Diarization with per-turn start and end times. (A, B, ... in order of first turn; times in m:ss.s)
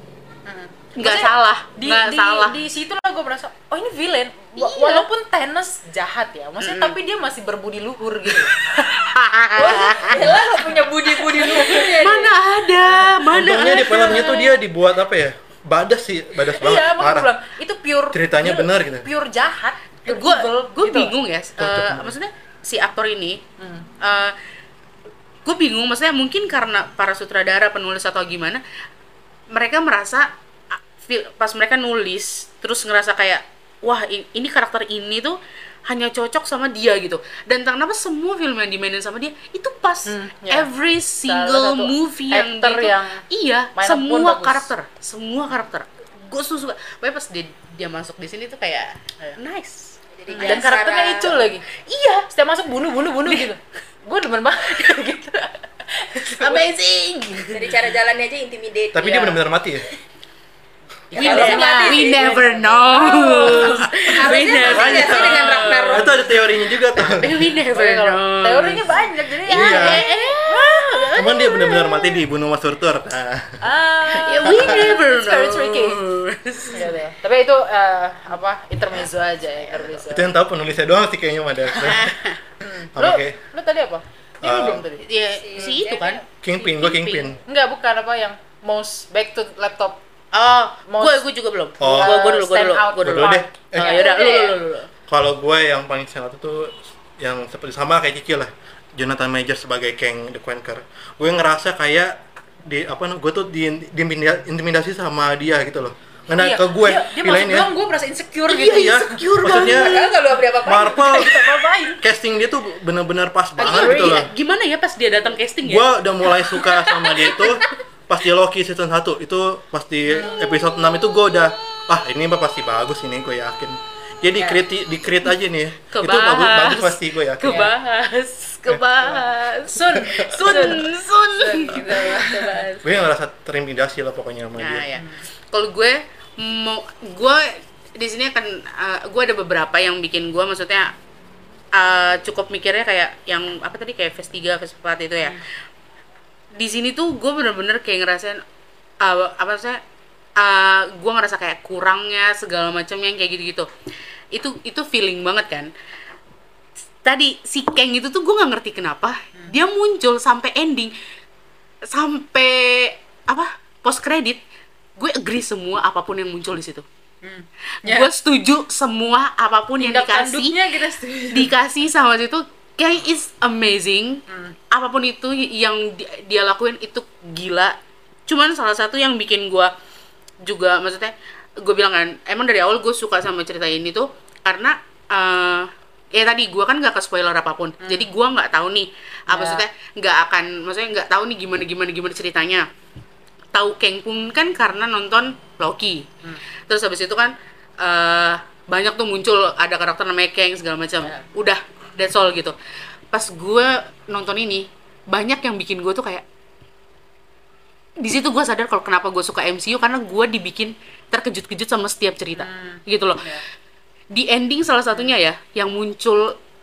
0:00.4-0:09.1 A
0:01.0-0:02.6 B
0:04.6-0:05.1 B
0:06.6-0:07.0 B
0:09.1-0:10.4 B
0:09.6-0:12.4 C
0:10.0-0:12.0 A
0:11.4-0:14.5 B
0:13.3-0:17.3 D
0:13.5-0:14.5 A
0:16.4-0:21.1 A
0:18.1-0:19.1 D
0:20.0-0:23.4 B
0:21.6-0:22.1 D
0:23.6-0:23.9 A
0:24.0-0:24.3 B
0:25.4-0:28.6 B
0:29.5-0:50.6 B
0:40.1-0:43.2 A
0:43.8-0:44.7 A
0:50.1-0:51.4 C
0:50.3-0:51.6 A
0:51.7-0:52.3 B
0:52.3-0:56.7 A
0:56.4-0:57.7 B
0:57.5-0:59.4 C
0:58.9-0:59.9 D
1:01.1-1:04.5 A
1:01.1-1:06.1 B
1:01.1-1:02.5 C
1:03.6-1:06.4 C
1:04.6-1:07.3 D
1:07.0-1:12.2 B
1:07.2-1:11.1 A
1:09.5-1:10.0 D
1:11.2-1:13.6 D
1:13.6-1:16.0 A
1:14.2-1:16.9 B
1:14.4-1:14.9 D
1:16.7-1:20.3 A
1:20.0-1:22.2 D
1:21.8-1:22.4 B
1:22.6-1:25.0 A
1:22.9-1:23.4 D
1:24.4-1:24.8 D
1:25.0-1:27.4 B
1:25.4-1:26.2 C
1:26.4-1:27.4 D
1:27.4-1:30.0 A
1:30.3-1:34.9 B
1:30.9-1:31.2 A
1:31.8-1:32.2 D
1:31.8-1:34.5 A
1:33.0-1:34.0 D
1:34.0-1:34.5 C
1:35.1-1:47.7 D
1:46.3-1:49.3 A
1:48.5-1:50.2 B
1:48.6-1:50.0 D
1:49.5-1:51.3 C
1:50.6-1:51.5 D
1:50.8-1:52.0 A
1:52.0-1:54.3 D
1:53.6-1:55.9 B
1:53.6-1:54.2 A
1:55.6-2:07.7 D
2:00.1-2:00.5 A
2:05.9-2:13.0 B
2:07.4-2:07.7 A
2:09.0-2:12.6 A
2:10.0-2:10.6 D
2:12.8-2:14.9 D
2:14.6-2:20.9 B
2:15.0-2:15.2 A
2:21.7-2:25.4 B
2:26.5-2:28.4 B
2:29.0-2:29.8 B
2:30.4-2:33.7 B
2:34.3-2:35.7 B
2:37.0-2:40.9 B
2:41.9-2:44.4 B
2:45.0-2:46.8 B
2:47.2-2:48.1 A
2:47.8-2:50.6 B
2:49.8-2:51.5 A
2:51.3-2:59.7 B
2:54.3-2:54.6 A
3:00.4-3:12.7 B
3:07.8-3:08.1 A
3:09.3-3:09.6 A
3:13.5-3:16.1 B
3:16.7-3:22.6 B
3:23.1-3:26.2 B
3:28.0-3:33.3 B
3:32.4-3:33.4 A
3:34.1-3:36.4 B